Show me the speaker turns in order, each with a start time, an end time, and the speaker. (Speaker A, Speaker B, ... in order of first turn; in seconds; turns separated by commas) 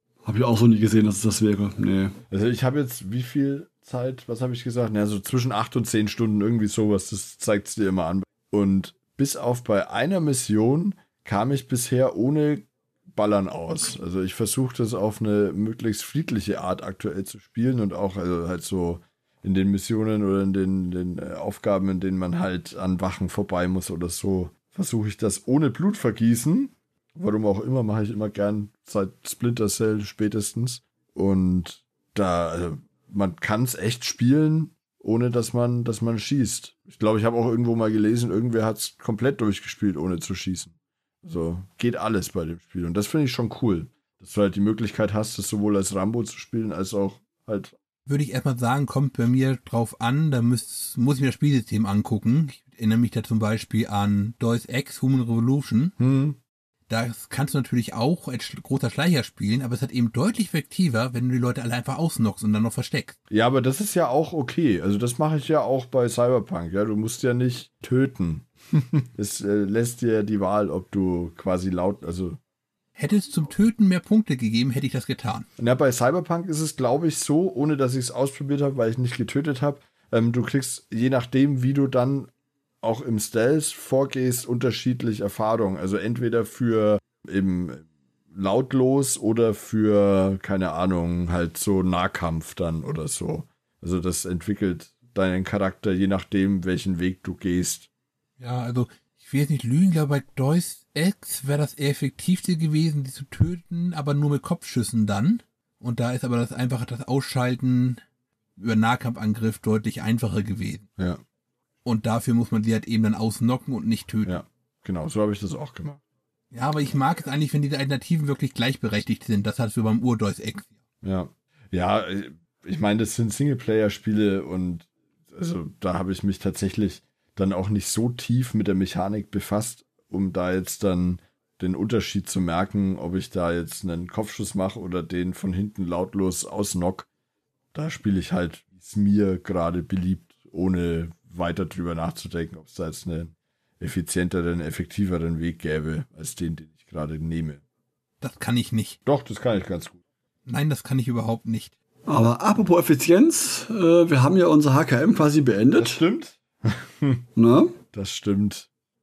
Speaker A: 0.2-2.2, Speaker B: 2.3-40.7, Speaker B: 41.2-47.8, Speaker C: 48.1-55.9, Speaker B: 56.0-56.4, Speaker C: 56.9-63.1, Speaker B: 63.3-72.4, Speaker C: 73.0-75.5, Speaker B: 75.6-82.3, Speaker B: 82.8-97.9, Speaker C: 98.4-108.0, Speaker C: 108.6-110.8, Speaker C: 111.8-114.4, Speaker B: 114.2-116.0, Speaker C: 116.5-120.7, Speaker B: 121.0-137.1, Speaker B: 137.7-147.6, Speaker C: 148.2-149.0, Speaker B: 149.1-150.0, Speaker C: 150.4-151.7, Speaker A: 152.1-156.0, Speaker B: 155.8-157.2, Speaker A: 157.3-157.8, Speaker B: 157.9-158.7